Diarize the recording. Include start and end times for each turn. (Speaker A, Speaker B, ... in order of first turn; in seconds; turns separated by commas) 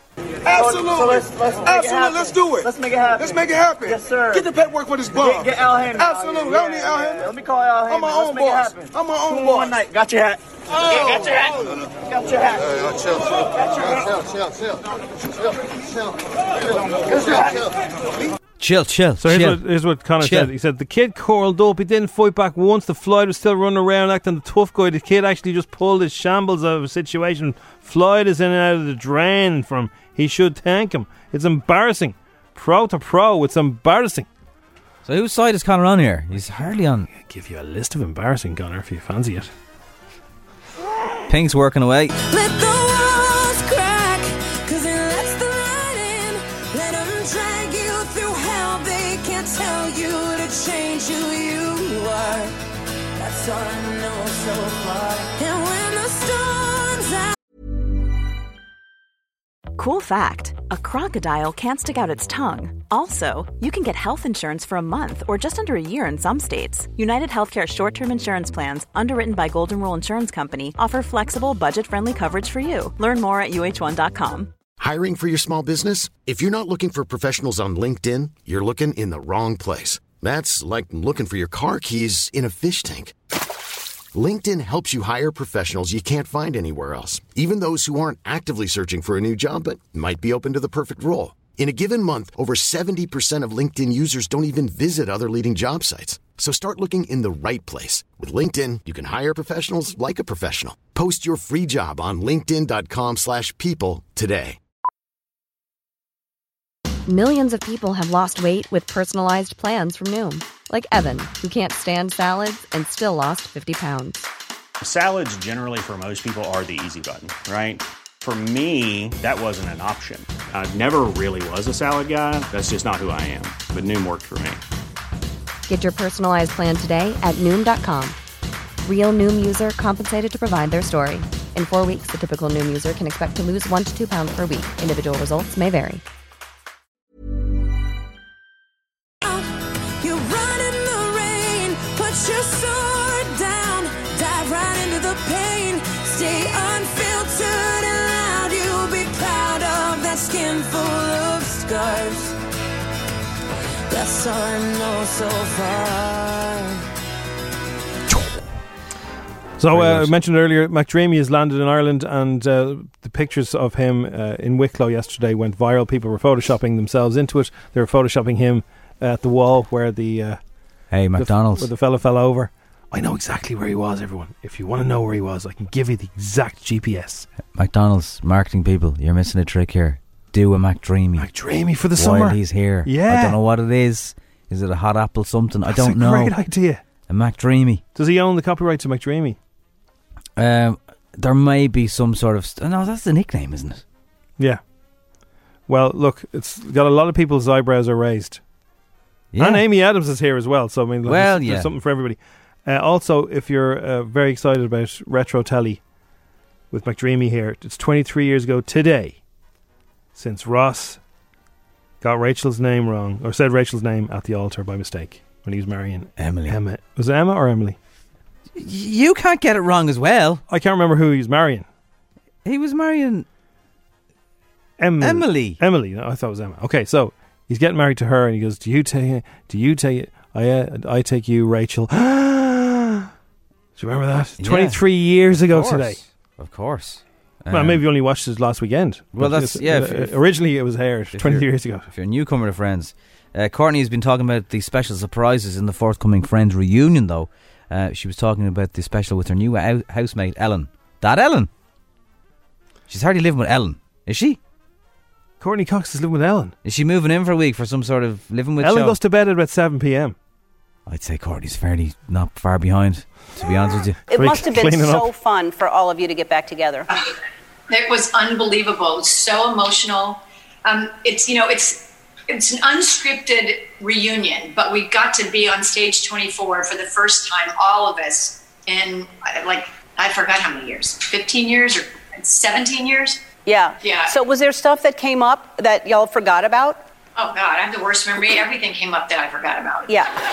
Speaker A: 0.5-14.0, Speaker A: 17.0-17.7, Speaker B: 18.6-19.6, Speaker C: 19.2-34.3, Speaker B: 20.2-20.5, Speaker B: 35.0-37.1, Speaker C: 37.2-39.5, Speaker B: 41.3-42.2, Speaker D: 42.2-52.6, Speaker D: 53.2-57.4, Speaker E: 59.8-74.5, Speaker F: 74.8-83.1, Speaker F: 84.1-104.6, Speaker G: 107.1-114.3, Speaker H: 114.8-124.6, Speaker G: 125.7-128.2, Speaker G: 128.8-136.0, Speaker D: 139.2-152.4, Speaker D: 153.9-156.8, Speaker C: 159.6-170.4, Speaker B: 159.7-160.1, Speaker B: 170.9-171.7, Speaker C: 171.2-177.3, Speaker B: 177.5-181.3, Speaker C: 181.2-183.4, Speaker B: 182.0-186.3, Speaker C: 185.7-186.8, Speaker B: 187.1-187.8, Speaker C: 187.9-189.4, Speaker B: 190.4-193.8, Speaker C: 195.7-198.4, Speaker B: 199.3-199.6, Speaker C: 199.4-205.8, Speaker B: 201.1-201.7, Speaker C: 206.7-209.2, Speaker C: 210.2-211.0, Speaker C: 212.0-217.8, Speaker B: 216.2-216.6, Speaker B: 218.6-220.4, Speaker C: 220.5-221.7, Speaker B: 222.4-223.3, Speaker C: 224.8-233.1, Speaker B: 225.0-225.6, Speaker C: 233.8-236.0, Speaker B: 234.4-237.8, Speaker C: 237.5-241.9, Speaker B: 239.2-240.1, Speaker B: 241.1-251.5, Speaker B: 252.9-254.4, Speaker C: 255.4-256.6, Speaker B: 256.6-259.0, Speaker C: 258.6-260.1, Speaker B: 260.9-264.0, Speaker C: 264.1-265.1, Speaker I: 264.1-266.9, Speaker J: 267.7-283.2, Speaker I: 283.5-286.8, Speaker J: 283.8-284.2, Speaker J: 287.2-290.0